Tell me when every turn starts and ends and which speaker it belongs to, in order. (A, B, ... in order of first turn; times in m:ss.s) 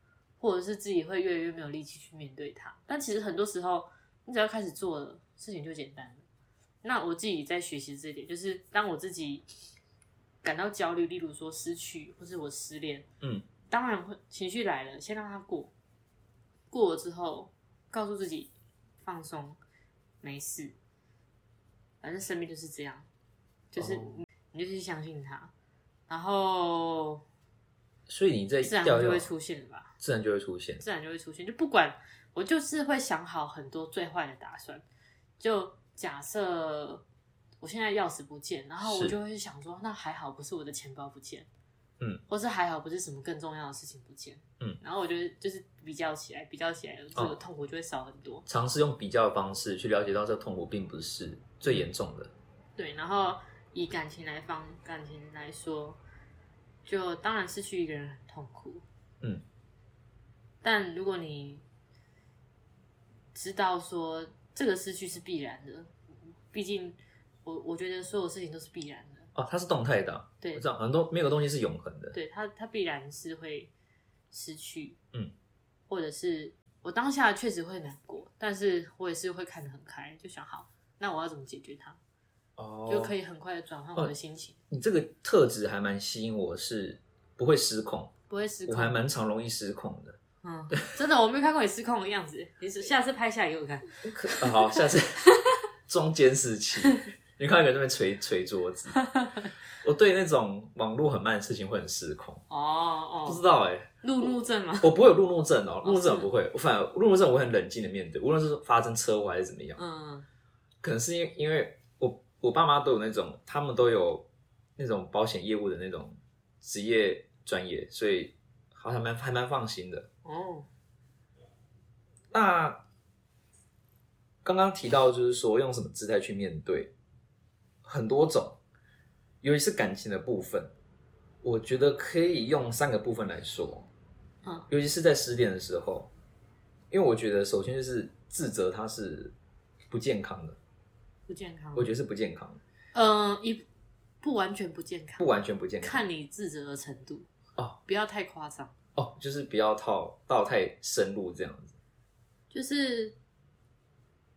0:00.4-0:06.2 A
0:06.8-0:09.4 A
0:10.4-0:13.1 A
0:13.2-0:13.5 B
0:13.7-0:15.7 A
0:16.7-0:18.5 A
0:19.0-0:19.6 A
0:20.2-0:20.8 A
0:22.0-0:23.1 A
0:23.7-0:25.5 A
0:23.8-0:24.2 B
0:26.1-0:27.2 A
0:28.1-0:29.3 B
0:28.6-0:29.9 A
0:30.0-0:30.8 B
0:30.8-0:34.8 A
0:35.4-0:37.0 A
0:37.6-0:41.5 A
0:38.8-0:39.2 B
0:42.3-0:48.4 A
0:48.5-0:52.3 B
0:52.8-0:56.0 A
0:56.8-0:58.8 A
1:00.6-1:01.6 A
1:03.3-1:05.9 A
1:06.5-1:09.3 A
1:09.4-1:12.2 B
1:12.1-1:13.7 A
1:14.3-1:15.0 A
1:15.9-1:22.0 A
1:22.6-1:23.1 B
1:22.9-1:24.6 A
1:24.7-1:28.1 B
1:28.3-1:29.0 A
1:28.7-1:30.2 B
1:30.4-1:34.8 A
1:34.0-1:35.2 B
1:35.9-1:39.0 B
1:39.0-1:39.4 A
1:39.8-1:42.4 B
1:42.5-1:43.4 A
1:43.2-1:43.9 B
1:44.0-1:44.9 A
1:44.8-1:49.8 B
1:45.8-1:46.3 A
1:49.8-1:50.3 A
1:50.8-1:54.3 B
1:54.8-2:00.1 B
2:00.2-2:00.7 A
2:02.3-2:02.8 B
2:04.4-2:06.9 B
2:07.8-2:08.6 B
2:09.4-2:10.7 B
2:11.4-2:13.9 B
2:14.7-2:16.1 B
2:16.9-2:19.3 B
2:19.9-2:20.6 B
2:21.3-2:21.9 A
2:21.8-2:22.6 B
2:22.9-2:23.6 A
2:24.2-2:27.3 A
2:25.2-2:26.1 B
2:27.8-2:28.7 A
2:29.0-2:31.8 B
2:32.5-2:33.2 A